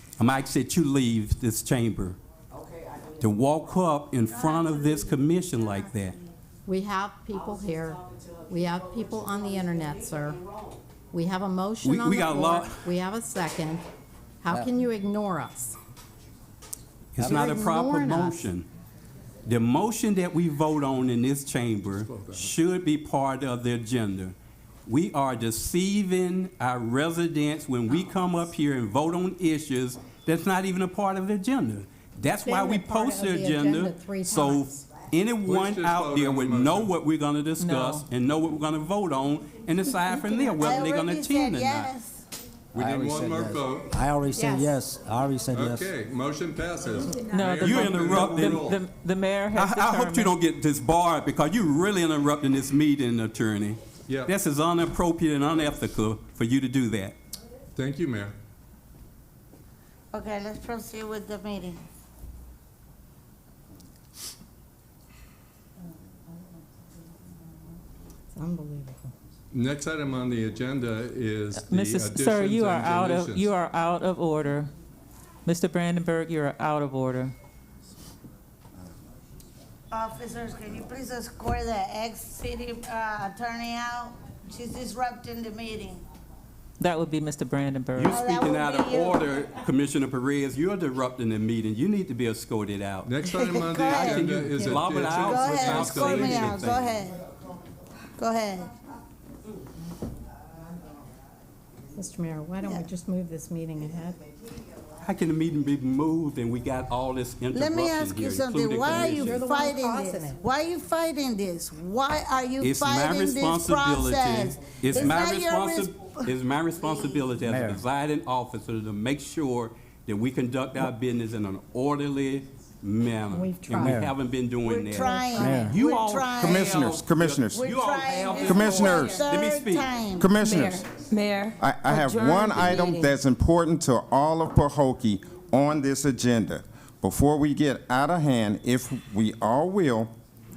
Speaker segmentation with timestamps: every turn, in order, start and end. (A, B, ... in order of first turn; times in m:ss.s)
0:00.2-0:02.2 A
0:03.2-0:06.2 A
0:06.6-0:10.4 B
0:11.1-0:13.8 B
0:11.8-0:12.8 A
0:14.4-0:15.8 B
0:17.1-0:18.7 A
0:17.2-0:18.5 B
0:19.4-0:24.3 A
0:21.9-0:22.5 C
0:24.9-0:41.9 A
0:32.3-0:34.9 B
0:35.4-0:36.9 C
0:37.6-0:38.0 D
0:40.6-0:42.2 E
0:42.7-0:43.9 C
0:42.8-0:45.9 F
0:44.4-0:44.7 B
0:45.5-0:48.8 C
0:47.3-0:50.4 D
0:47.6-0:48.7 A
0:49.5-0:57.2 A
0:54.1-0:54.3 C
0:57.7-0:58.3 C
1:00.1-1:01.8 E
1:08.3-1:09.1 B
1:09.5-1:13.5 C
1:11.6-1:14.7 D
1:15.4-1:17.3 D
1:19.9-1:26.0 E
1:26.8-1:28.1 D
1:28.0-1:33.1 A
1:28.0-1:29.4 E
1:33.0-1:36.6 C
1:33.2-1:37.2 E
1:33.9-1:37.0 A
1:38.2-1:38.7 E
1:41.9-1:44.2 B
1:45.0-1:49.5 A
1:47.5-1:57.3 E
1:48.8-1:50.4 B
1:52.6-2:09.9 A
1:57.5-1:57.8 F
2:03.3-2:04.0 B
2:03.8-2:04.1 F
2:04.6-2:06.6 E
2:04.9-2:05.6 B
2:05.4-2:05.8 F
2:06.4-2:07.7 G
2:07.5-2:10.8 E
2:08.4-2:09.2 G
2:10.2-2:10.8 G
2:10.3-2:13.2 H
2:11.6-2:20.1 G